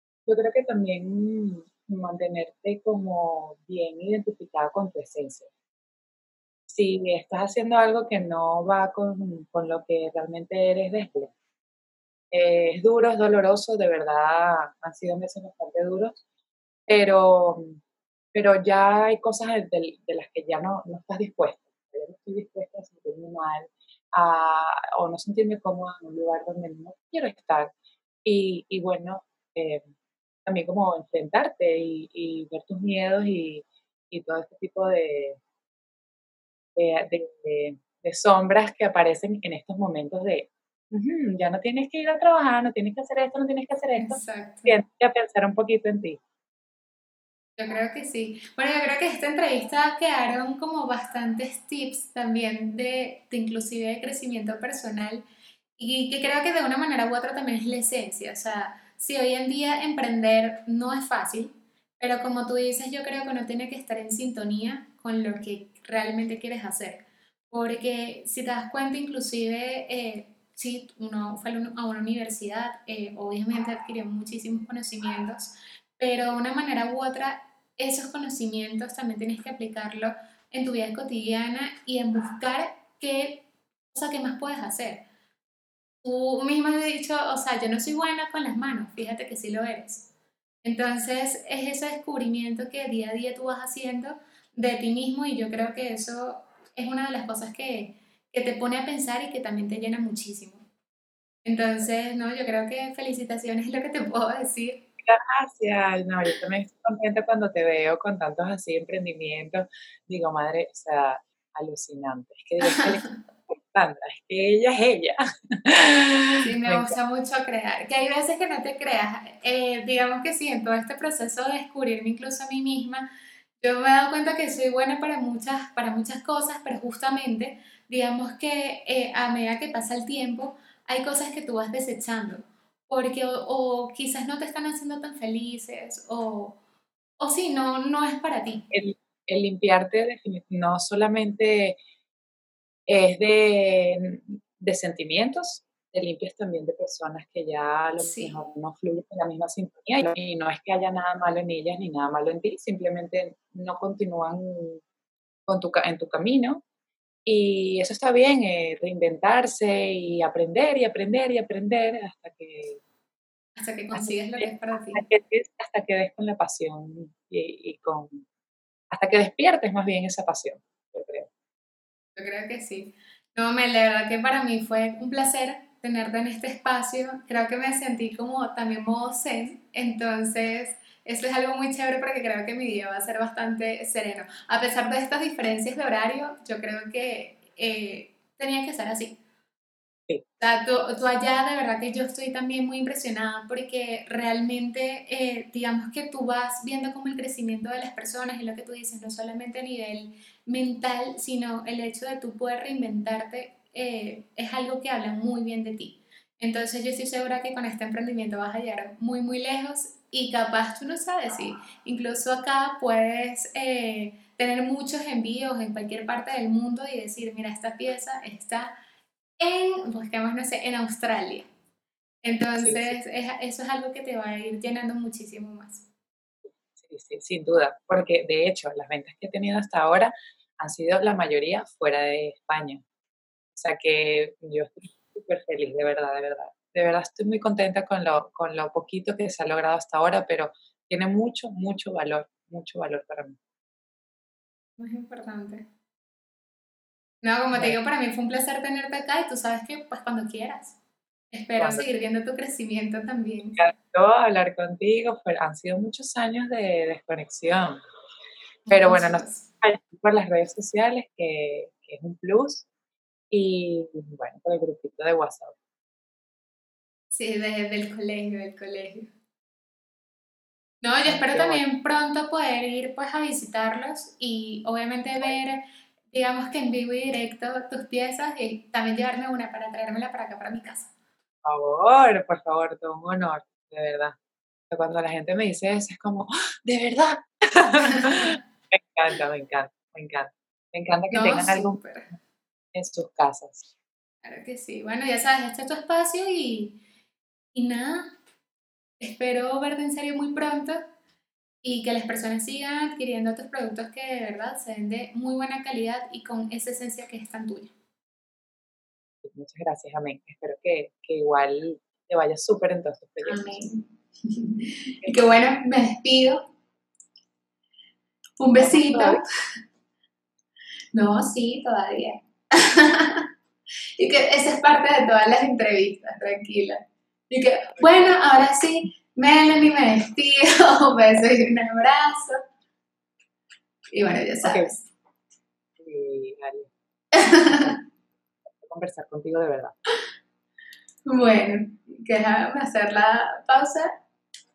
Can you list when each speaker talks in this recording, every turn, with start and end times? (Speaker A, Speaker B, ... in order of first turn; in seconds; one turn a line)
Speaker A: 0.3-5.5
Speaker A: 6.7-11.3
Speaker A: 12.3-16.2
Speaker A: 16.9-17.8
Speaker A: 18.3-27.7
Speaker A: 28.2-29.8
Speaker A: 30.5-35.4
Speaker A: 36.8-46.2
Speaker B: 44.0-44.7
Speaker B: 47.6-55.2
Speaker B: 55.8-85.0
Speaker B: 86.0-90.1
Speaker B: 90.6-100.7
Speaker B: 101.5-104.8
Speaker A: 105.0-117.0
Speaker B: 112.6-113.2
Speaker B: 116.4-123.1
Speaker B: 123.6-136.6
Speaker B: 137.2-138.7
Speaker A: 138.7-141.8
Speaker A: 142.9-154.8
Speaker B: 148.0-148.4
Speaker A: 155.5-156.6
Speaker A: 157.3-162.8
Speaker B: 163.6-165.0
Speaker A: 163.9-168.2
Speaker A: 168.9-171.3
Speaker B: 172.2-189.2
Speaker B: 190.4-218.7
Speaker B: 219.4-221.5
Speaker B: 222.2-225.8
Speaker A: 222.6-223.0
Speaker A: 226.4-232.8
Speaker A: 233.6-243.4
Speaker B: 244.8-245.7
Speaker B: 247.2-250.8
Speaker A: 247.5-247.8
Speaker B: 251.3-253.6
Speaker A: 251.6-251.9
Speaker A: 253.6-257.8
Speaker B: 258.7-259.5
Speaker A: 258.7-262.7
Speaker A: 263.3-265.6
Speaker B: 267.1-269.1
Speaker B: 270.8-280.9
Speaker A: 271.1-271.6
Speaker A: 281.4-284.2
Speaker A: 284.7-291.8
Speaker B: 287.8-288.4
Speaker B: 291.1-292.1
Speaker A: 292.7-293.6
Speaker B: 294.2-296.8
Speaker B: 297.5-298.2
Speaker B: 299.0-300.8
Speaker B: 301.6-307.7
Speaker A: 309.2-313.7
Speaker B: 313.2-316.5
Speaker B: 318.4-319.2
Speaker A: 318.6-319.2
Speaker B: 320.9-323.3
Speaker B: 324.0-332.4
Speaker B: 333.9-334.9
Speaker A: 334.4-334.7
Speaker A: 335.8-336.7
Speaker B: 337.1-337.8
Speaker A: 337.5-337.7
Speaker A: 338.6-339.8
Speaker B: 341.1-343.9